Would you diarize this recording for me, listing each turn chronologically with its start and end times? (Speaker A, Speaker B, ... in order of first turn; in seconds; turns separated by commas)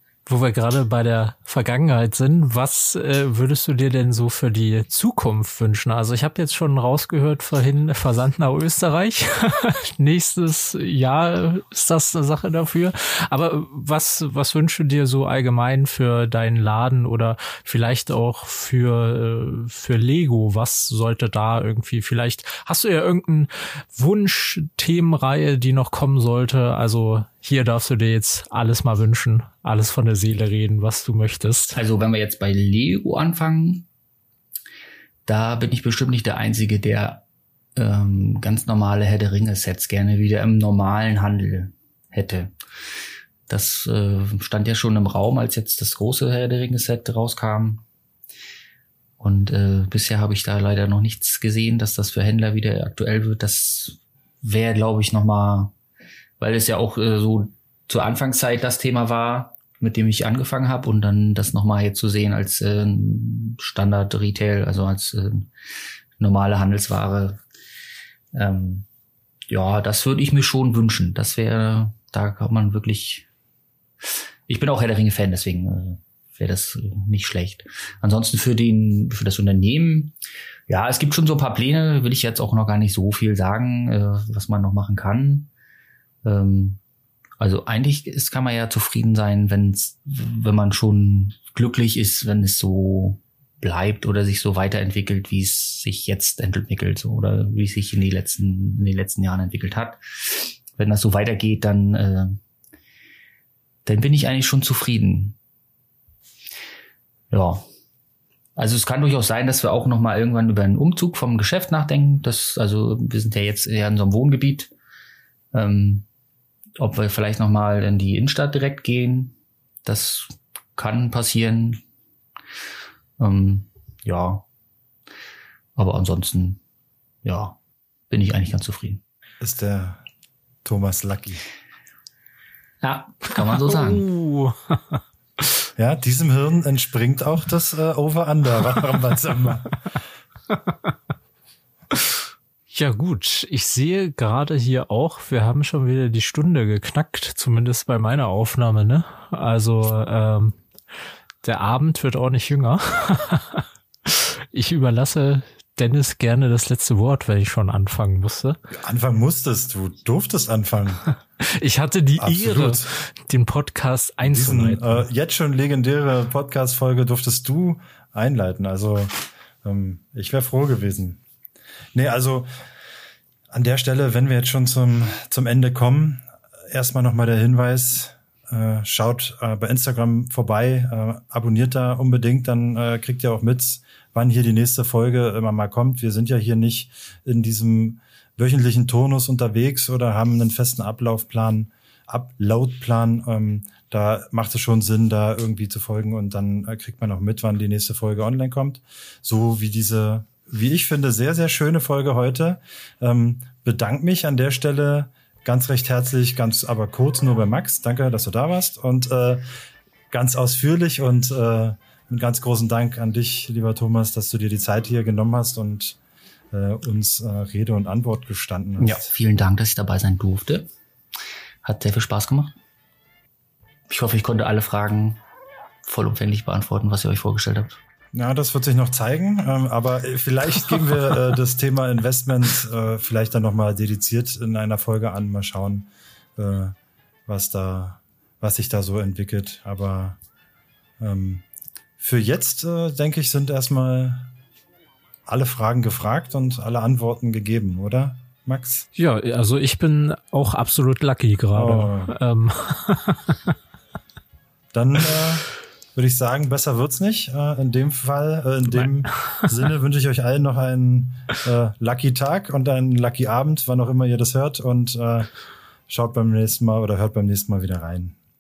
Speaker A: 0.3-31.8, Speaker B: 31.8-33.9, Speaker B: 35.3-37.2, Speaker B: 37.8-42.5, Speaker B: 43.5-47.8, Speaker B: 49.2-55.7, Speaker B: 56.4-65.5, Speaker B: 66.2-67.4, Speaker B: 68.3-68.9, Speaker B: 69.5-73.3, Speaker B: 74.5-80.1, Speaker B: 80.7-85.5, Speaker B: 86.2-86.8, Speaker B: 87.4-102.4, Speaker B: 103.9-105.4, Speaker B: 107.3-107.7, Speaker B: 108.6-114.7, Speaker B: 115.5-116.0, Speaker B: 116.8-119.3, Speaker B: 119.8-121.8, Speaker B: 123.2-124.4, Speaker B: 125.8-126.6, Speaker B: 127.2-127.6, Speaker B: 128.1-129.0, Speaker C: 129.4-130.0, Speaker C: 130.6-131.4, Speaker B: 132.8-134.1, Speaker A: 133.3-135.0, Speaker C: 135.8-139.8, Speaker A: 142.7-150.6, Speaker A: 151.4-158.6, Speaker C: 158.8-161.0, Speaker A: 161.4-165.0, Speaker C: 162.2-162.9, Speaker C: 164.2-171.2, Speaker C: 171.9-172.5, Speaker C: 173.5-209.5, Speaker C: 210.1-216.0, Speaker C: 216.5-219.1, Speaker B: 218.8-220.7, Speaker B: 221.6-222.5, Speaker B: 223.9-225.2, Speaker B: 225.8-227.8, Speaker C: 228.1-236.8, Speaker C: 237.3-240.2, Speaker C: 241.0-241.4, Speaker C: 242.0-244.3, Speaker C: 245.3-248.9, Speaker A: 249.0-253.4, Speaker C: 251.6-252.2, Speaker C: 254.7-265.3, Speaker C: 265.9-268.1